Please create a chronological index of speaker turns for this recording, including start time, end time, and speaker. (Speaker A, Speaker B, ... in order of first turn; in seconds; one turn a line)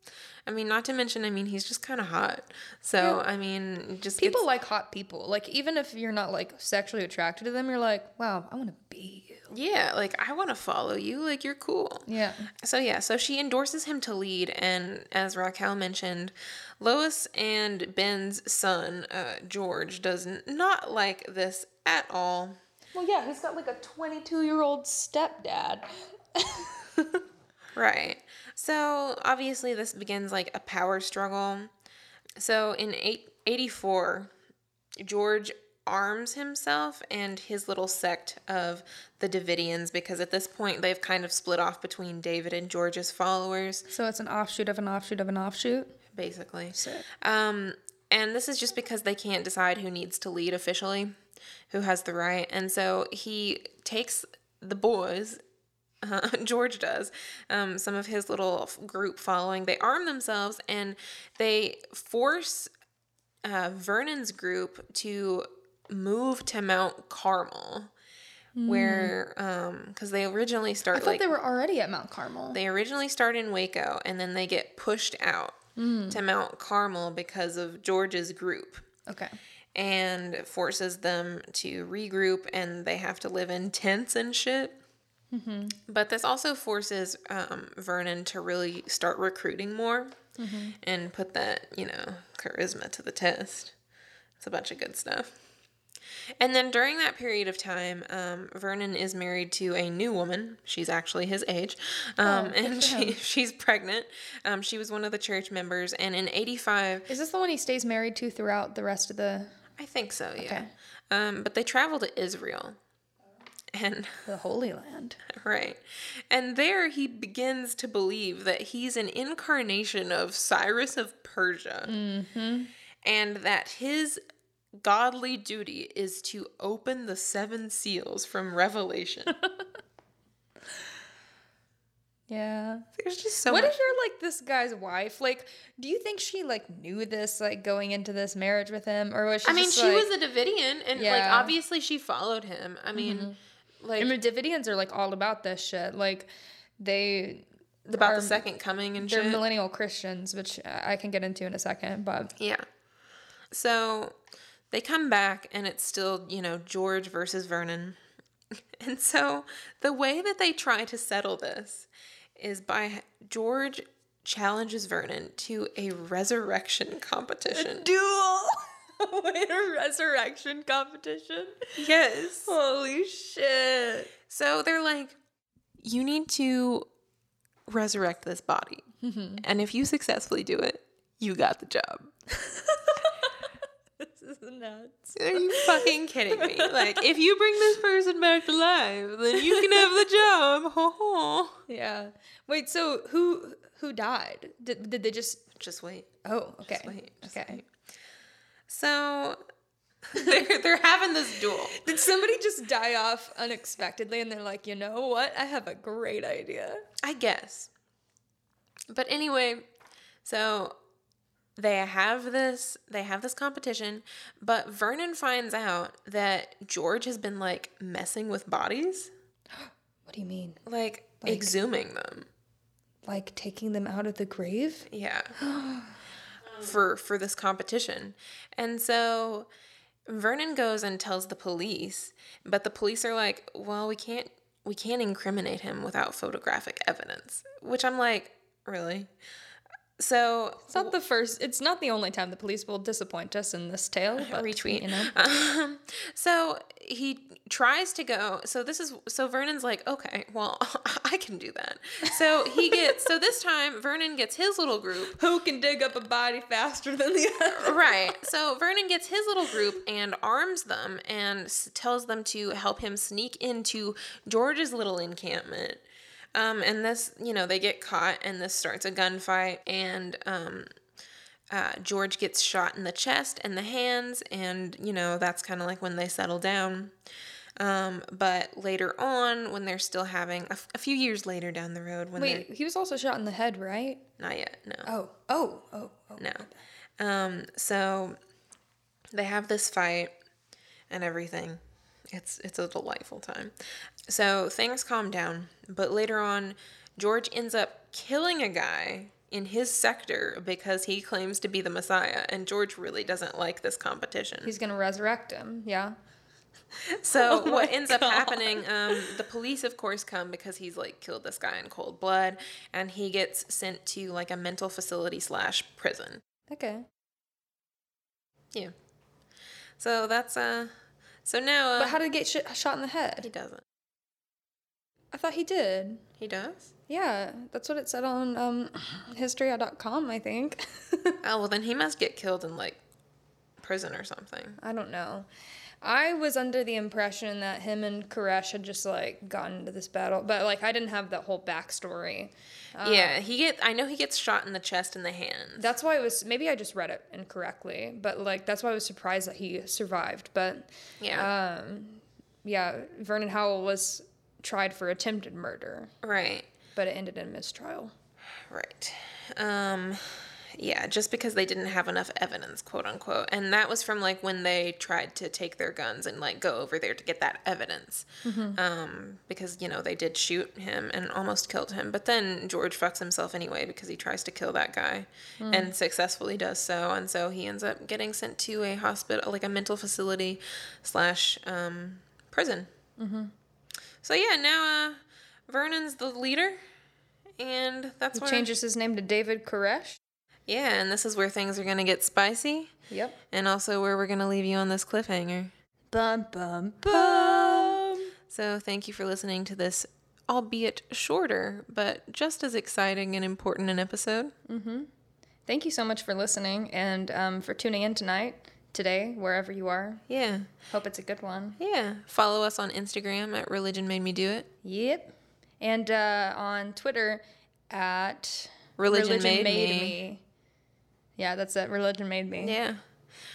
Speaker A: 0.5-4.4
Speaker B: 4.2-9.5
Speaker A: 9.5-12.1
Speaker B: 12.1-12.5
Speaker A: 12.6-22.6
Speaker B: 22.9-27.2
Speaker A: 27.8-31.7
Speaker A: 32.4-34.3
Speaker A: 35.0-43.9
Speaker B: 43.9-46.0
Speaker A: 46.1-51.1
Speaker B: 46.7-47.1
Speaker A: 51.7-55.4
Speaker A: 56.0-62.7
Speaker A: 63.4-67.9
Speaker B: 68.6-69.1
Speaker A: 68.7-71.3
Speaker B: 70.9-72.6
Speaker A: 72.5-75.6
Speaker B: 75.8-76.2
Speaker A: 76.1-78.8
Speaker B: 79.1-79.4
Speaker A: 79.8-84.8
Speaker B: 85.3-85.8
Speaker A: 85.9-90.2
Speaker B: 90.4-90.8
Speaker A: 90.8-93.8
Speaker A: 94.4-95.3
Speaker A: 96.4-107.1
Speaker B: 102.2-103.2
Speaker B: 107.1-109.6
Speaker A: 109.8-112.8
Speaker B: 110.4-110.7
Speaker A: 113.7-114.3
Speaker B: 114.2-115.2
Speaker A: 115.3-121.9
Speaker B: 121.8-122.7
Speaker A: 123.0-124.2
Speaker A: 124.8-129.3
Speaker B: 129.4-129.7
Speaker B: 132.3-132.9
Speaker A: 133.0-133.7
Speaker B: 133.5-140.1
Speaker A: 139.4-144.2
Speaker B: 141.0-141.6
Speaker B: 142.9-143.4
Speaker B: 144.0-148.4
Speaker A: 147.9-149.4
Speaker B: 149.0-152.3
Speaker A: 152.4-152.7
Speaker A: 153.5-154.2
Speaker A: 154.7-158.0
Speaker A: 158.5-167.9
Speaker B: 167.5-171.8
Speaker A: 171.8-172.5
Speaker B: 172.5-174.1
Speaker A: 174.3-175.2
Speaker A: 175.8-176.9
Speaker A: 177.7-178.8
Speaker B: 179.0-179.4
Speaker A: 179.4-182.1
Speaker B: 182.3-183.4
Speaker B: 184.0-187.1
Speaker A: 185.2-191.6
Speaker B: 189.4-190.0
Speaker B: 191.7-195.4
Speaker A: 195.6-196.1
Speaker B: 196.2-197.6
Speaker A: 196.6-197.7
Speaker A: 198.7-199.4
Speaker A: 200.1-201.8
Speaker B: 200.2-200.5
Speaker B: 201.7-206.8
Speaker A: 207.0-207.7
Speaker A: 208.9-209.7
Speaker A: 210.2-210.8
Speaker A: 211.6-219.1
Speaker B: 219.6-220.6
Speaker A: 220.7-222.3
Speaker B: 221.2-221.5
Speaker B: 223.1-226.0
Speaker A: 224.9-225.3
Speaker A: 226.6-229.5
Speaker A: 230.1-239.1
Speaker A: 240.0-240.9
Speaker B: 240.7-245.1
Speaker A: 244.2-255.2
Speaker B: 252.4-252.9
Speaker B: 255.1-258.1
Speaker A: 257.6-265.8
Speaker A: 266.3-270.7
Speaker A: 271.5-276.9
Speaker A: 277.6-282.4
Speaker B: 282.2-284.1
Speaker A: 284.2-284.9
Speaker B: 284.9-286.5
Speaker A: 286.2-286.5
Speaker A: 287.0-288.2
Speaker A: 289.1-290.1
Speaker A: 290.9-293.6
Speaker A: 294.1-304.5
Speaker B: 304.4-305.9
Speaker A: 306.9-316.2
Speaker B: 306.9-309.2
Speaker B: 316.5-316.9
Speaker A: 319.8-320.7
Speaker A: 321.2-322.0
Speaker B: 321.8-323.3
Speaker A: 323.2-323.6
Speaker B: 325.1-326.0
Speaker A: 326.2-326.7
Speaker B: 326.9-331.2
Speaker A: 331.2-332.8
Speaker A: 333.6-334.6
Speaker B: 334.6-335.3
Speaker B: 335.8-343.2
Speaker A: 342.8-345.7
Speaker B: 345.6-355.9
Speaker A: 351.0-351.3
Speaker A: 356.0-356.5
Speaker B: 356.8-357.9
Speaker A: 358.4-382.7
Speaker B: 368.2-368.6
Speaker B: 375.4-375.7
Speaker B: 383.0-383.3
Speaker A: 384.0-386.6
Speaker A: 387.4-388.5
Speaker B: 388.1-390.0
Speaker A: 390.5-392.7
Speaker B: 392.9-393.2
Speaker A: 393.3-395.5
Speaker B: 395.9-398.1
Speaker A: 396.9-404.3
Speaker B: 404.5-404.9
Speaker B: 405.5-410.0
Speaker A: 410.1-410.5
Speaker B: 410.7-411.6
Speaker A: 411.6-414.5
Speaker B: 414.6-420.2
Speaker A: 418.8-420.0
Speaker B: 421.2-422.6
Speaker A: 422.4-422.8